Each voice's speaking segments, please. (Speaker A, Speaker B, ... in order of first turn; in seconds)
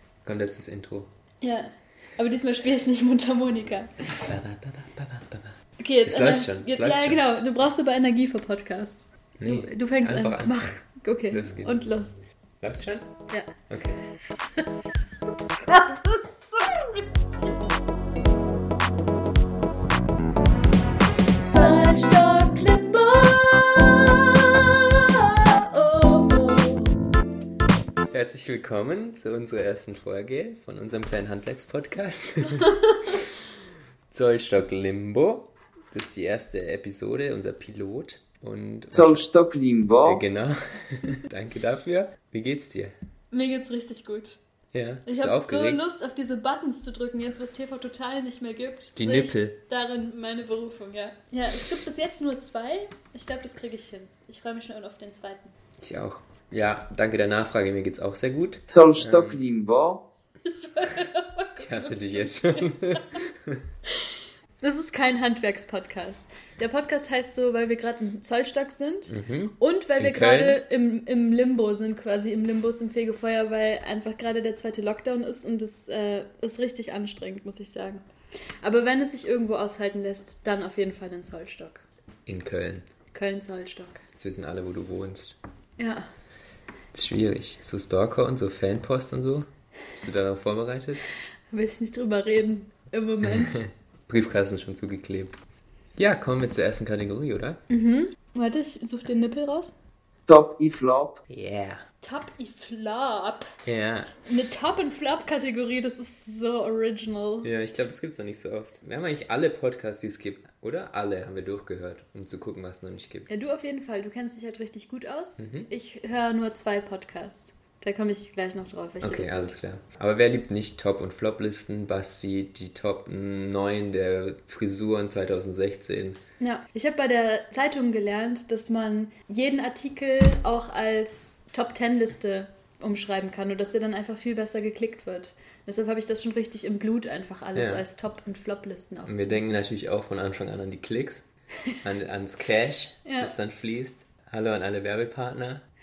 Speaker A: 0.2-1.1, 4.2-5.5, 6.0-7.2, 9.4-10.8, 11.3-11.9, 12.6-13.1, 13.7-14.0, 28.1-33.4, 34.1-39.3, 40.0-42.9, 44.7-45.8, 49.0-49.6, 55.8-59.4, 61.6-63.6, 69.1-70.6, 82.3-82.8, 84.2-85.4, 86.9-91.1, 93.4-95.4, 96.0-97.6, 101.3-101.8, 103.6-104.2, 107.4-113.3, 115.4-115.7, 119.0-126.2, 137.5-137.9, 139.1-141.2, 141.8-145.6
Speaker B: 1.4-4.3, 5.8-12.2, 15.7-17.4, 21.4-26.9, 43.3-44.4, 45.0-55.5, 60.4-63.2, 63.9-78.0, 78.6-81.8, 83.1-84.0, 85.8-86.1, 91.5-93.7, 97.7-99.7, 102.0-103.5, 104.3-107.5, 113.3-119.6, 126.4-139.5, 143.1-143.3
Speaker C: 38.9-40.2, 58.7-60.0, 100.3-101.2